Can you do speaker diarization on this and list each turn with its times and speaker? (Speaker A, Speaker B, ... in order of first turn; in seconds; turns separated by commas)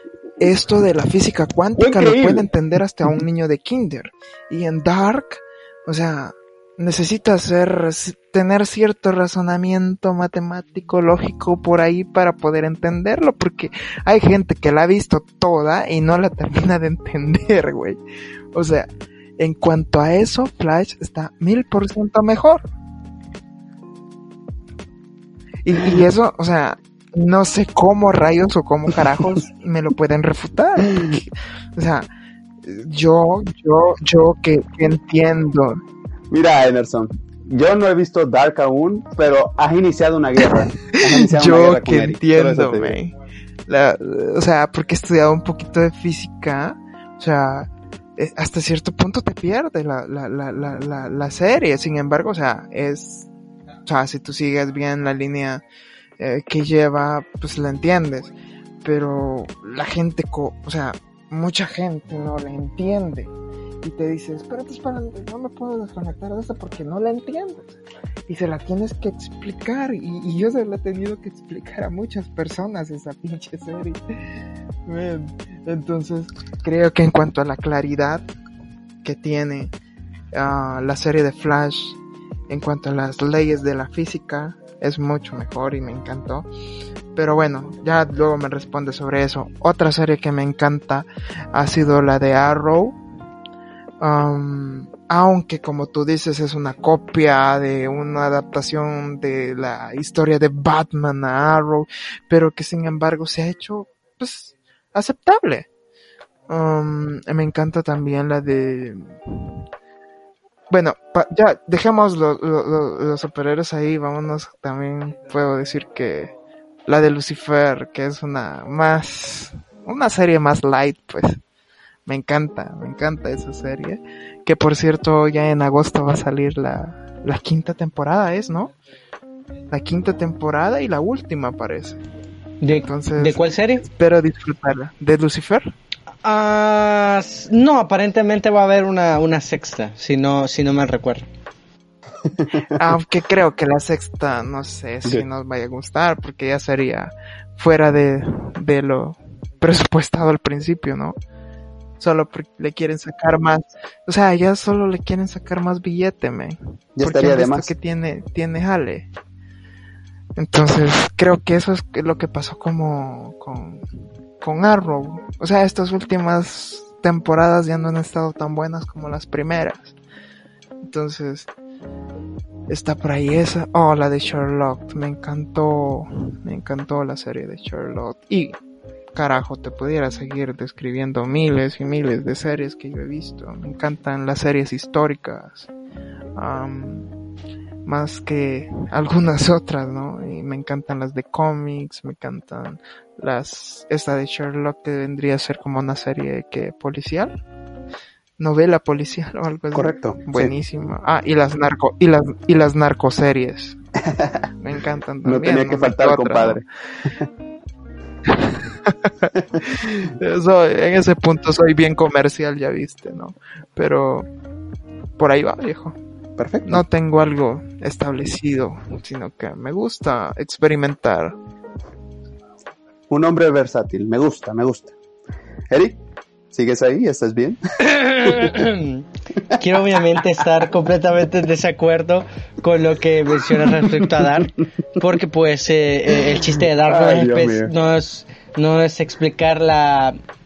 Speaker A: 0.4-18.0, Speaker B: 1.8-2.5, Speaker A: 18.5-22.6, Speaker A: 25.6-32.1, Speaker A: 32.6-35.8, Speaker B: 36.3-43.0, Speaker A: 40.4-43.1, Speaker A: 43.7-53.3, Speaker A: 53.9-55.6, Speaker A: 56.2-58.3, Speaker A: 58.8-78.2, Speaker A: 79.0-79.7, Speaker A: 80.3-86.5, Speaker A: 87.1-93.0, Speaker A: 94.0-105.7, Speaker A: 106.5-109.7, Speaker A: 110.7-116.3, Speaker A: 116.9-121.4, Speaker A: 122.1-128.7, Speaker A: 129.7-132.0, Speaker C: 132.6-133.8, Speaker A: 132.7-135.7, Speaker C: 136.2-141.3, Speaker B: 142.4-142.6, Speaker A: 142.7-151.2, Speaker A: 152.0-159.1, Speaker B: 157.0-157.7, Speaker A: 160.4-163.8, Speaker A: 164.4-170.0, Speaker A: 170.8-171.5, Speaker A: 172.7-178.6, Speaker A: 179.2-185.7, Speaker A: 186.4-187.1, Speaker A: 187.8-197.3, Speaker A: 198.4-203.8, Speaker B: 199.7-200.5, Speaker B: 204.1-204.4, Speaker A: 204.6-206.6, Speaker B: 205.2-207.2, Speaker A: 208.2-214.3, Speaker A: 215.2-216.0, Speaker B: 216.4-216.8, Speaker A: 216.7-221.3, Speaker B: 223.1-224.9, Speaker B: 225.7-226.0, Speaker B: 226.5-227.6, Speaker C: 227.8-240.2, Speaker B: 228.2-228.5, Speaker B: 233.5-234.5, Speaker B: 236.5-237.7